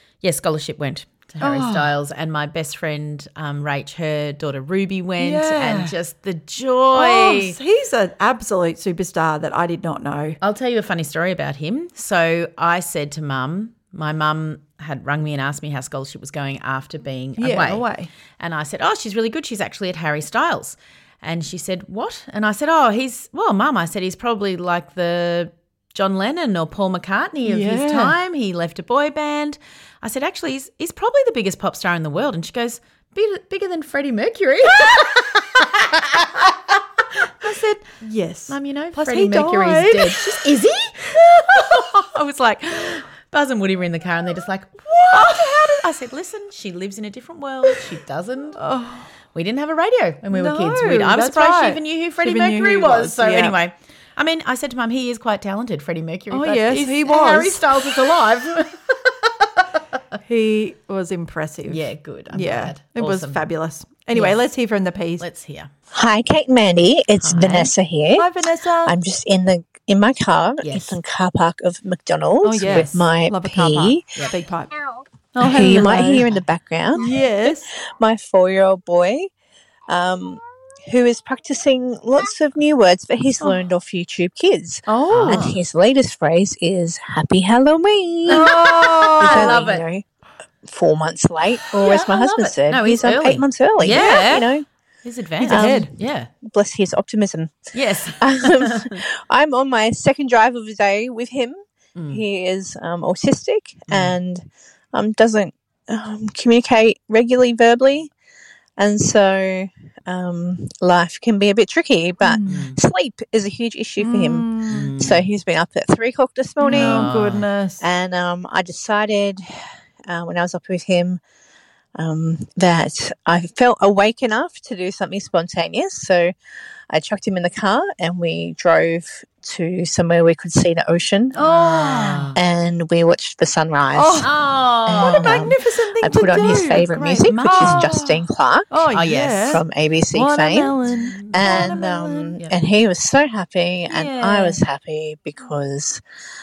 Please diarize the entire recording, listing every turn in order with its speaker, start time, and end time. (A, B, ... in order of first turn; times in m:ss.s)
0:00.2-0:07.5 A
0:01.4-0:01.9 B
0:05.2-0:06.0 B
0:06.9-0:10.4 B
0:10.4-0:17.9 A
0:17.4-0:18.1 B
0:18.4-0:36.2 A
0:27.4-0:28.2 B
0:37.4-0:40.4 B
0:38.5-0:48.6 A
0:45.1-0:45.9 B
0:48.6-0:49.1 B
0:49.3-0:59.5 A
0:50.3-0:53.6 B
0:56.3-0:58.0 B
1:00.2-1:05.2 B
1:01.7-1:03.4 A
1:04.1-1:04.4 A
1:05.2-1:05.7 A
1:05.9-1:08.3 C
1:07.2-1:07.7 A
1:08.2-1:09.0 B
1:08.8-1:14.0 C
1:10.6-1:11.0 A
1:12.4-1:14.7 B
1:12.6-1:13.0 A
1:15.3-1:16.3 B
1:15.4-1:19.3 C
1:16.0-1:16.4 A
1:16.9-1:17.7 B
1:19.9-1:28.5 C
1:24.9-1:25.6 A
1:25.0-1:25.5 B
1:28.3-1:29.6 B
1:28.3-1:29.8 A
1:29.2-1:30.0 C
1:30.6-1:34.6 C
1:31.7-1:36.3 A
1:33.8-1:34.3 B
1:35.4-1:35.9 B
1:35.4-1:35.9 C
1:36.5-1:37.7 C
1:37.7-1:39.0 A
1:38.2-1:41.6 C
1:42.0-1:42.2 A
1:42.1-1:48.1 C
1:43.9-1:44.2 A
1:48.8-1:57.2 C
1:52.2-1:52.6 B
1:52.5-1:52.8 A
1:54.0-1:55.0 B
1:54.7-1:55.2 A
1:56.6-1:57.8 B
1:56.6-1:57.4 A
1:57.8-1:59.4 C
2:00.1-2:01.2 C
2:02.0-2:06.3 C
2:06.9-2:11.4 C
2:11.3-2:12.3 B
2:11.3-2:12.4 A
2:12.3-2:14.3 C
2:13.9-2:14.4 B
2:14.2-2:15.3 A
2:14.8-2:18.7 C
2:14.9-2:22.3 B
2:16.6-2:17.9 A
2:18.9-2:19.6 A
2:19.5-2:26.0 C
2:21.0-2:21.8 A
2:23.9-2:24.6 A